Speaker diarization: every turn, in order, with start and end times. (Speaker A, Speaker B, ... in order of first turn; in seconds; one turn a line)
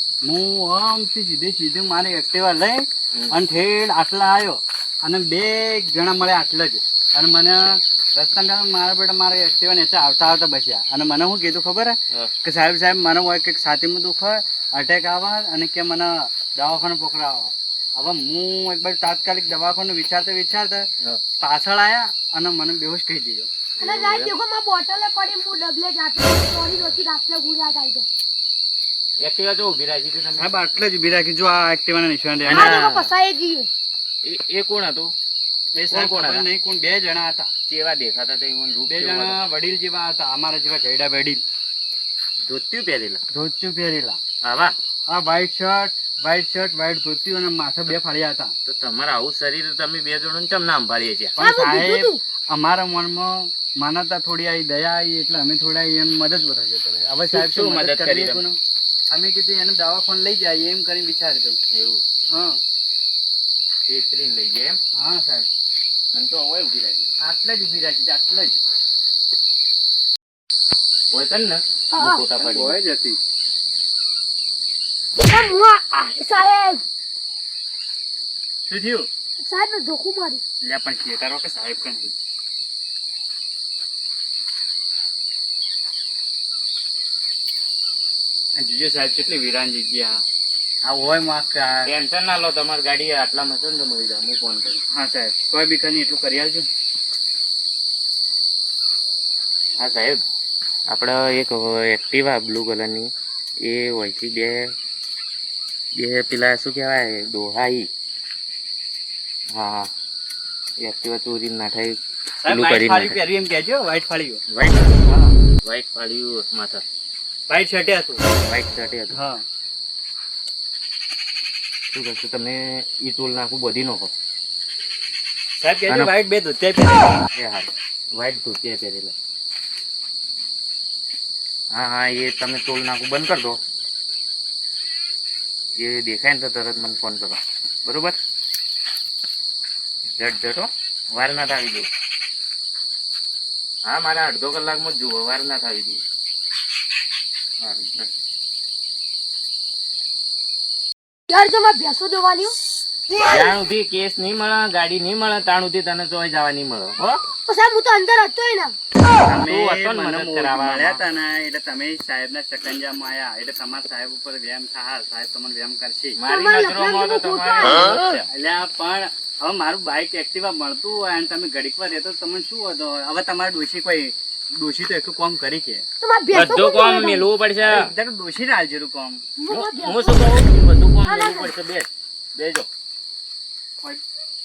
Speaker A: 0.2-20.9
Speaker A: 21.4-23.5
Speaker B: 23.8-24.3
Speaker C: 23.8-28.1
Speaker B: 29.2-30.5
Speaker A: 30.4-33.1
Speaker B: 32.5-32.7
Speaker C: 32.5-33.7
Speaker B: 34.2-35.1
Speaker A: 35.7-37.5
Speaker B: 35.9-36.5
Speaker B: 37.7-39.4
Speaker A: 38.9-41.4
Speaker B: 42.5-43.2
Speaker A: 43.3-44.2
Speaker B: 44.4-44.7
Speaker A: 45.1-48.5
Speaker B: 48.6-51.4
Speaker A: 51.4-61.6
Speaker C: 51.4-52.2
Speaker B: 57.3-58.4
Speaker B: 61.7-62.0
Speaker A: 62.3-62.6
Speaker B: 63.9-64.8
Speaker A: 65.0-65.5
Speaker B: 66.1-67.1
Speaker A: 67.2-68.6
Speaker B: 71.1-72.8
Speaker C: 71.9-72.2
Speaker A: 72.3-73.2
Speaker C: 75.3-76.8
Speaker A: 78.7-79.1
Speaker C: 79.4-80.4
Speaker A: 80.6-82.1
Speaker A: 88.6-90.2
Speaker A: 90.8-91.9
Speaker B: 91.8-94.8
Speaker A: 94.9-96.7
Speaker B: 99.8-100.2
Speaker B: 100.9-103.1
Speaker B: 103.6-104.7
Speaker B: 106.0-107.9
Speaker B: 109.5-109.9
Speaker B: 110.8-113.2
Speaker A: 112.4-114.4
Speaker B: 114.5-116.8
Speaker A: 115.0-115.3
Speaker A: 117.5-118.2
Speaker B: 118.4-119.2
Speaker A: 119.1-119.4
Speaker B: 121.9-124.1
Speaker A: 125.6-127.2
Speaker B: 125.9-126.1
Speaker B: 127.4-129.1
Speaker B: 131.7-133.6
Speaker B: 135.8-138.2
Speaker B: 140.2-141.9
Speaker B: 143.8-146.0
Speaker B: 147.6-148.1
Speaker C: 151.3-152.6
Speaker B: 153.2-157.2
Speaker C: 157.4-158.8
Speaker B: 159.3-161.0
Speaker A: 159.3-166.2
Speaker B: 166.2-168.2
Speaker C: 166.3-168.1
Speaker A: 168.3-175.8
Speaker C: 176.0-177.3
Speaker B: 176.3-177.8
Speaker A: 177.6-179.2
Speaker C: 179.4-180.4
Speaker B: 179.5-182.7
Speaker C: 181.0-181.5